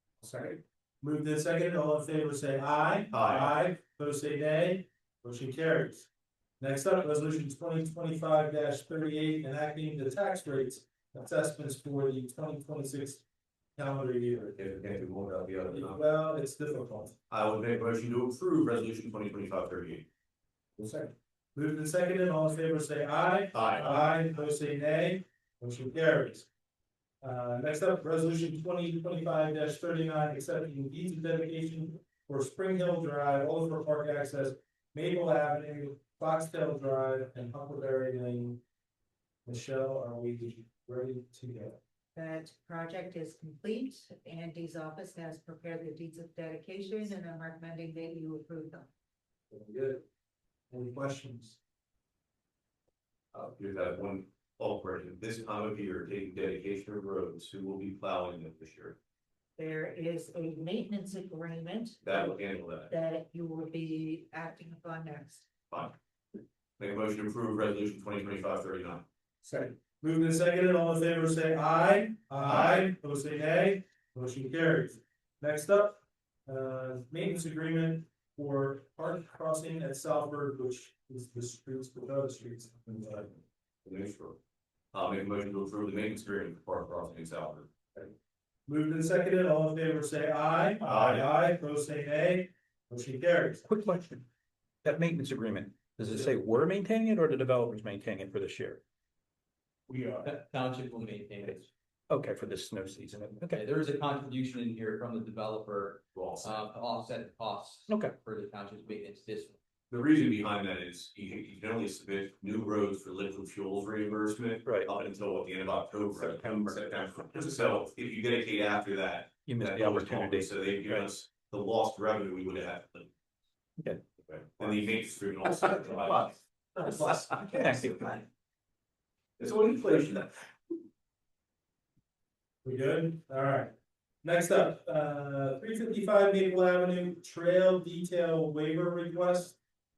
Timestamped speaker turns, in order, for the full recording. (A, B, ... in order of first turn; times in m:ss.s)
0:00.2-0:06.1 A
0:03.1-0:03.5 B
0:06.6-0:13.2 A
0:13.8-0:14.6 A
0:14.6-0:16.0 B
0:15.7-0:17.1 A
0:17.3-0:20.1 B
0:20.8-0:26.5 A
0:23.5-0:23.9 B
0:27.2-0:38.6 A
0:39.4-0:41.8 A
0:42.2-0:48.9 C
0:50.7-0:51.6 A
0:53.3-0:59.0 B
0:59.6-1:05.5 C
1:02.0-1:02.9 B
1:06.8-1:09.0 B
1:09.4-1:23.4 A
1:23.8-1:24.4 B
1:24.9-1:28.1 B
1:28.7-1:33.7 A
1:30.8-1:31.3 B
1:33.8-1:34.2 D
1:34.8-1:38.8 E
1:35.2-1:36.8 D
1:37.3-1:37.7 D
1:40.1-1:41.7 D
1:42.1-1:43.6 E
1:42.3-1:49.6 D
1:46.1-1:46.5 B
1:49.9-2:03.1 B
1:56.3-1:56.9 D
1:59.5-2:00.5 E
1:59.7-2:01.0 D
2:04.3-2:07.6 B
2:05.9-2:06.3 D
2:06.8-2:08.0 D
2:09.4-2:10.3 B
2:12.6-2:19.6 A